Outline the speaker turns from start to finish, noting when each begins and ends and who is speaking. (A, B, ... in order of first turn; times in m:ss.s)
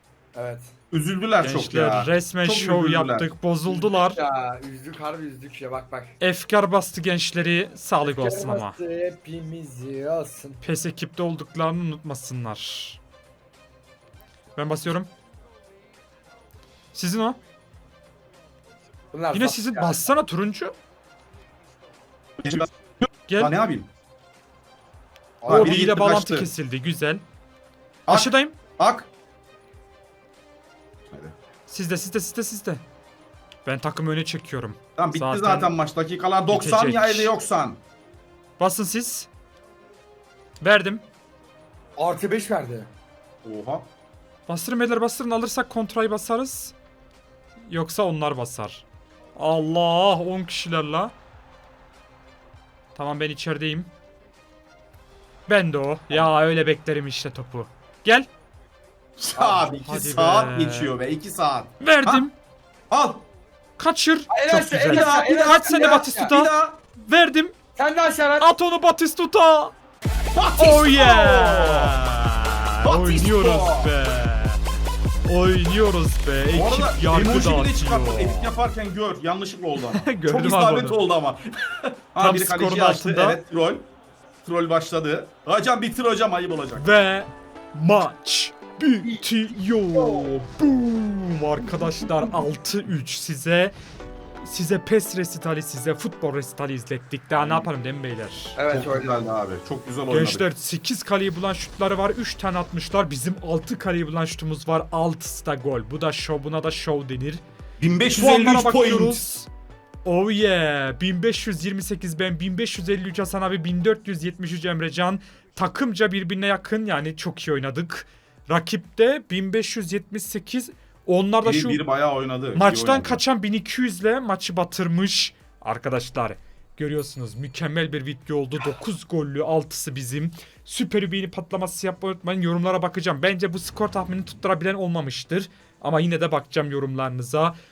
0:00.3-0:00.7 A
0:00.9-0:03.3 B
0:01.4-0:04.2 C
0:03.7-0:06.1 A
0:06.2-0:08.7 C
0:08.0-0:10.6 A
0:10.6-0:13.0 C
0:14.6-0:15.1 C
0:16.9-0:17.4 C
0:19.1-0:20.0 A
0:19.3-0:20.8 C
0:22.4-0:22.7 B
0:23.3-0:23.5 C
0:23.4-0:23.9 B
0:25.4-0:26.5 B
0:25.5-0:27.2 C
0:28.1-0:28.6 C
0:28.1-0:29.1 B
0:31.1-0:31.3 B
0:31.7-0:32.8 C
0:33.6-0:35.7 C
0:35.0-0:37.8 B
0:36.5-0:37.3 C
0:38.6-0:39.3 C
0:40.6-0:41.0 C
0:42.0-0:42.9 A
0:43.4-0:43.9 B
0:44.5-0:46.7 C
0:47.6-0:48.8 C
0:49.4-0:51.1 C
0:52.9-0:53.9 C
0:55.5-0:58.3 C
0:59.2-1:02.2 B
0:59.4-0:59.8 A
0:59.8-1:00.9 C
1:01.8-1:02.3 C
1:02.9-1:03.2 B
1:03.8-1:07.5 C
1:04.3-1:06.3 A
1:04.9-1:06.8 B
1:07.8-1:08.5 A
1:08.4-1:09.7 C
1:10.3-1:12.0 B
1:10.6-1:14.6 C
1:12.8-1:13.9 B
1:15.2-1:18.5 C
1:16.5-1:23.9 B
1:19.8-1:21.0 C
1:22.2-1:23.4 C
1:24.4-1:26.9 B
1:26.8-1:33.7 C
1:29.0-1:29.3 A
1:29.9-1:30.3 A
1:34.4-1:38.6 C
1:37.4-1:37.7 B
1:38.6-1:39.2 A
1:38.7-1:40.4 B
1:40.1-1:47.4 C
1:47.8-1:49.2 B
1:48.1-1:49.5 C
1:50.0-2:01.8 C
2:01.4-2:03.2 B
2:02.5-2:17.6 C